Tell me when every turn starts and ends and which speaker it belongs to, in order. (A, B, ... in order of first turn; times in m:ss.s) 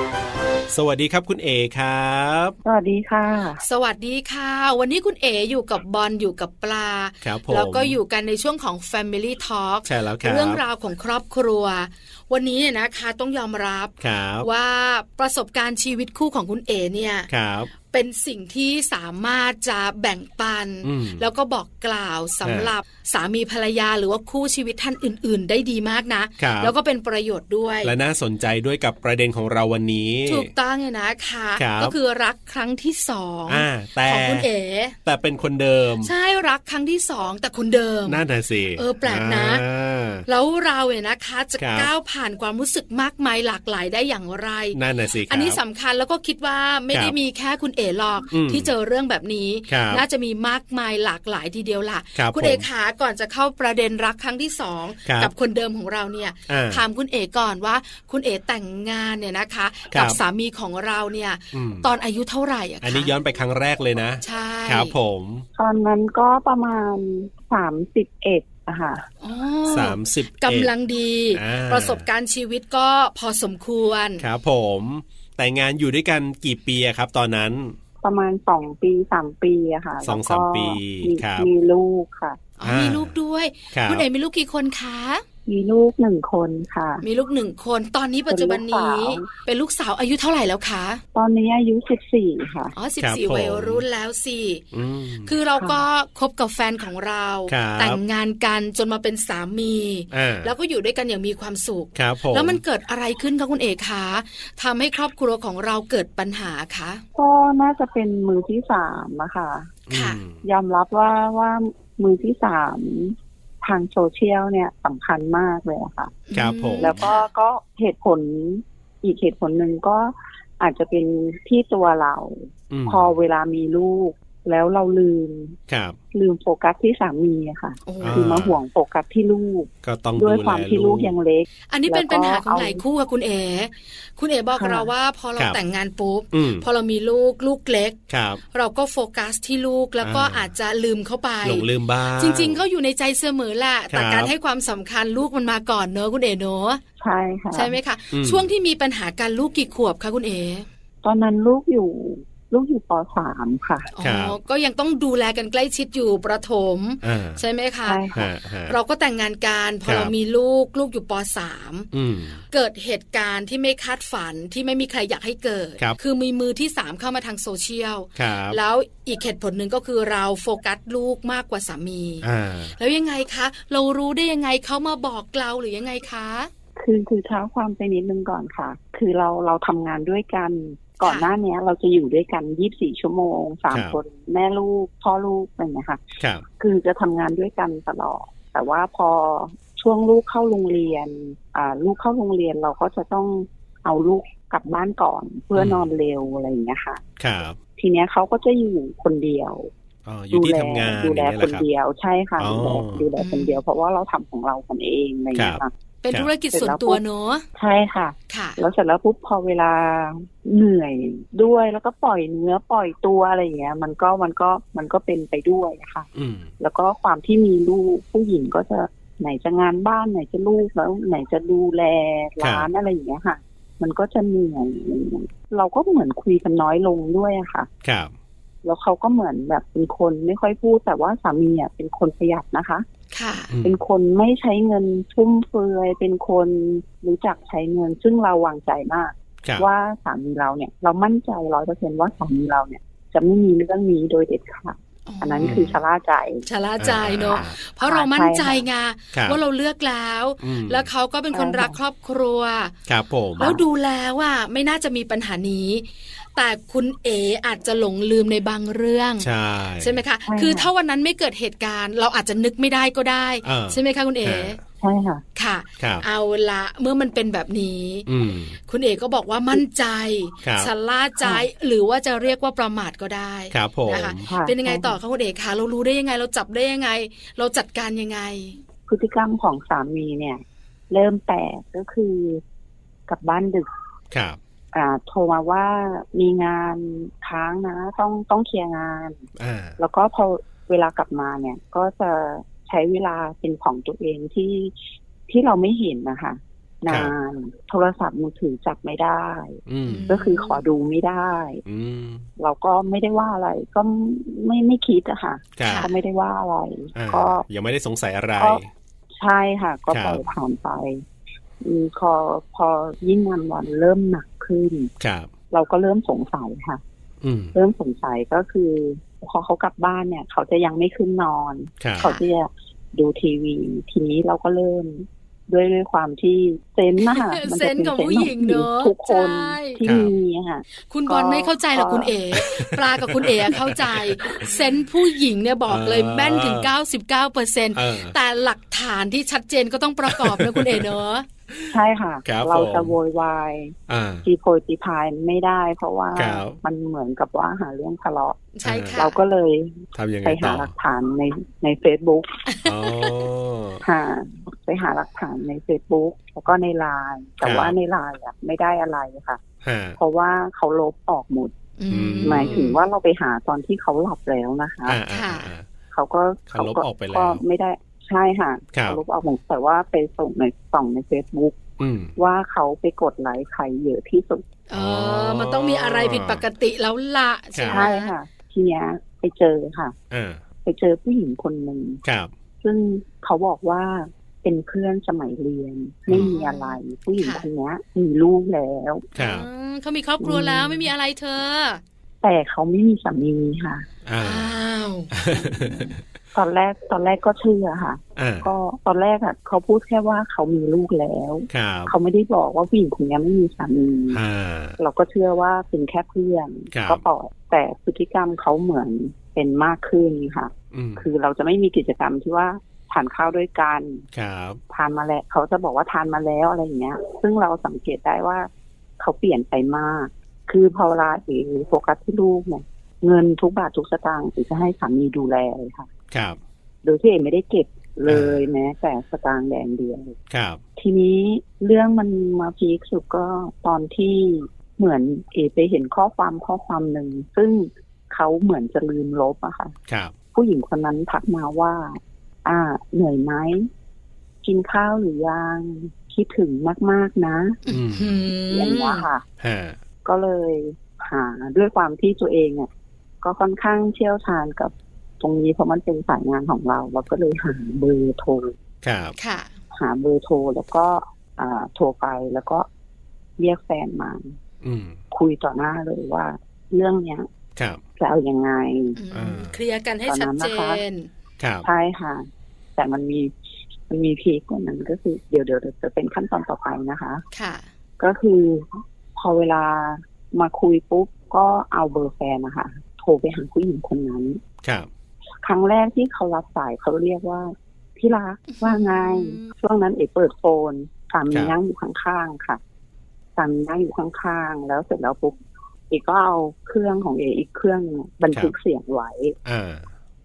0:00.7-0:02.6 A
0:02.6-0:03.6 B
0:03.6-0:17.3 C
0:07.2-0:08.0 A
0:09.8-0:10.6 A
0:14.0-0:14.5 A
0:17.3-0:17.7 A
0:17.9-0:27.9 C
0:20.8-0:21.2 A
0:22.4-0:22.7 A
0:26.4-0:26.7 A
0:27.8-0:30.5 A
0:30.2-0:35.0 C
0:31.6-0:31.9 A
0:33.5-0:34.5 A
0:35.0-0:36.1 A
0:36.0-0:38.2 C
0:38.1-0:40.2 A
0:38.8-0:39.6 C
0:40.3-1:03.1 C
0:41.6-0:41.9 A
0:44.7-0:45.6 A
0:48.3-0:48.7 A
0:49.7-0:50.0 A
0:52.2-0:52.7 A
0:55.0-0:55.3 A
0:56.5-0:56.8 A
0:59.9-1:00.2 A
1:01.5-1:01.9 A
1:02.8-1:05.4 A
1:04.2-1:04.9 C
1:05.5-1:09.1 B
1:09.2-1:14.2 C
1:09.7-1:10.7 A
1:11.3-1:12.1 A
1:14.2-1:17.8 A
1:18.0-1:22.4 B
1:20.0-1:21.5 A
1:22.6-1:25.2 C
1:22.6-1:23.1 A
1:23.7-1:24.0 A
1:25.4-1:27.0 B
1:27.0-1:31.0 C
1:28.3-1:29.3 B
1:31.1-1:32.7 B
1:32.8-1:34.6 C
1:33.0-1:33.8 A
1:34.7-1:35.3 A
1:35.2-1:47.0 C
1:35.6-1:35.8 B
1:37.5-1:38.0 A
1:40.1-1:40.5 A
1:42.0-1:42.6 A
1:47.2-1:49.7 B
1:49.9-1:50.4 A
1:49.9-1:50.2 C
1:50.4-1:56.1 B
1:56.3-1:57.3 C
1:56.3-1:57.0 A
1:56.8-2:05.6 B
2:02.7-2:03.1 A
2:05.7-2:06.0 A
2:06.1-2:12.8 B
2:07.8-2:08.3 C
2:08.0-2:08.6 A
2:09.8-2:11.1 A
2:11.7-2:18.0 C
2:14.6-2:14.9 B
2:16.3-2:16.7 A
2:18.1-2:18.4 A
2:18.5-2:21.7 C
2:20.0-2:20.5 A
2:21.4-2:22.6 A
2:22.2-2:26.8 C
2:23.9-2:24.3 A
2:27.0-2:27.8 B
2:27.5-2:30.6 C
2:28.1-2:28.5 A
2:31.0-2:33.9 B
2:34.0-2:38.0 C
2:34.0-2:34.4 A
2:37.0-2:37.4 A
2:37.8-2:38.3 B
2:38.1-2:38.8 A
2:38.7-2:41.9 C
2:39.8-2:40.1 A
2:41.9-2:42.4 A
2:42.5-2:56.5 C
2:48.2-2:48.6 A
2:52.2-2:52.7 A
2:56.8-3:17.0 B
3:01.0-3:01.3 C
3:03.7-3:04.0 A
3:06.2-3:06.4 A
3:15.5-3:15.9 A
3:17.2-3:17.6 A
3:17.8-3:19.7 B
3:20.0-3:21.6 A
3:20.3-3:25.7 B
3:22.4-3:23.0 A
3:23.2-3:23.6 C
3:25.3-3:25.6 A
3:26.0-3:27.4 C
3:26.5-3:27.0 B
3:27.5-3:36.1 B
3:28.3-3:28.6 C
3:36.1-3:36.5 A
3:36.6-3:47.7 B
3:42.4-3:42.7 A
3:47.8-3:48.1 A
3:48.6-3:52.8 B
3:53.1-3:53.5 C
3:53.5-3:53.8 A
3:53.6-4:06.4 B
4:05.1-4:05.8 C
4:05.4-4:05.8 A
4:06.4-4:12.7 C
4:06.8-4:07.6 A
4:07.8-4:08.6 B
4:09.1-4:09.4 A
4:10.4-4:10.9 A
4:11.3-4:11.8 B
4:12.9-4:13.6 A
4:13.4-4:19.3 C
4:19.2-4:20.0 A
4:19.8-4:24.6 C
4:20.2-4:20.7 B
4:23.4-4:24.6 A
4:24.8-4:25.2 B
4:25.4-4:28.1 C
4:25.8-4:26.0 A
4:28.1-4:28.6 A
4:28.7-4:38.6 C
4:30.4-4:30.7 A
4:31.2-4:31.4 B
4:33.5-4:34.3 A
4:34.2-4:35.0 B
4:38.9-4:42.4 B
4:43.1-4:43.7 B
4:44.1-4:44.4 A
4:44.7-4:49.2 B
4:49.4-4:49.8 A
4:49.8-4:54.7 B
4:55.3-5:01.6 B
4:56.9-4:57.1 A
4:59.7-5:00.1 A
4:59.8-5:00.6 C
5:01.6-5:02.2 A
5:02.4-5:07.4 B
5:05.6-5:05.9 A
5:05.6-5:05.9 C
5:06.9-5:08.7 A
5:09.2-5:11.0 B
5:09.9-5:10.2 A
5:11.6-5:14.9 B
5:15.0-5:15.3 A
5:15.5-5:16.8 B
5:17.2-5:17.5 A
5:17.5-5:32.1 B
5:21.8-5:22.1 A
5:27.0-5:29.8 C
5:29.8-5:30.1 A
5:30.9-5:41.2 C
5:32.3-5:34.6 A
5:35.7-5:36.7 A
5:37.7-5:38.1 A
5:40.0-5:41.0 A
5:41.7-5:52.4 B
5:42.2-5:43.0 A
5:43.9-5:44.2 A
5:46.2-5:46.6 A
5:48.5-5:49.2 C
5:48.6-5:49.0 A
5:49.9-5:50.7 A
5:52.5-5:53.3 C
5:52.6-5:53.8 A
5:53.8-5:59.4 B
5:57.4-5:57.7 A
5:59.6-6:00.0 A
6:00.0-6:01.5 B
6:01.8-6:02.8 C
6:01.9-6:02.7 A
6:02.2-6:05.0 B
6:04.9-6:05.7 A
6:05.1-6:05.5 C
6:05.9-6:11.6 B
6:06.5-6:07.4 A
6:08.7-6:09.0 A
6:11.8-6:12.1 A
6:12.2-6:14.4 B
6:14.7-6:18.1 C
6:14.7-6:16.4 A
6:17.5-6:17.8 A
6:17.7-6:19.9 B
6:20.1-6:20.4 A
6:20.6-6:22.0 B
6:22.0-6:22.3 A
6:22.6-6:29.1 B
6:26.1-6:27.4 C
6:29.1-6:29.5 A
6:29.1-6:31.8 C
6:30.2-6:30.9 B
6:32.2-6:33.9 B
6:34.0-6:34.6 A
6:34.2-6:35.1 C
6:35.1-6:36.0 A
6:35.4-6:35.8 B
6:36.3-6:44.2 B
6:38.2-6:38.5 A
6:41.5-6:41.9 A
6:44.1-6:44.8 A
6:44.8-6:54.0 B
6:46.7-6:47.0 A
6:50.7-6:51.0 A
6:54.1-6:54.6 A
6:54.7-7:05.9 B
7:06.1-7:06.4 A
7:06.8-7:10.2 B
7:08.1-7:08.4 A
7:10.3-7:10.6 A
7:10.8-7:19.7 B
7:19.9-7:20.1 A
7:20.3-7:23.7 B
7:24.4-7:27.6 B
7:27.6-7:29.1 C
7:27.7-7:28.2 A
7:28.5-7:29.2 B
7:29.4-7:29.8 A
7:30.0-7:32.7 B
7:33.2-7:38.5 B
7:38.8-7:39.1 A
7:39.2-7:39.5 C
7:39.7-7:42.7 B
7:43.4-7:44.3 B
7:44.6-7:45.0 A
7:45.1-7:47.3 B
7:47.6-7:47.8 A
7:48.0-7:49.0 B
7:49.0-7:51.1 C
7:49.1-7:49.6 A
7:50.0-7:50.8 B
7:51.4-7:51.7 A
7:51.6-7:53.3 B
7:53.9-7:57.2 B
7:57.3-7:57.7 C
7:58.0-8:04.4 B
8:04.6-8:04.9 A
8:05.4-8:12.6 B
8:08.5-8:09.5 C
8:13.4-8:15.4 B
8:15.9-8:19.4 B
8:19.4-8:19.9 A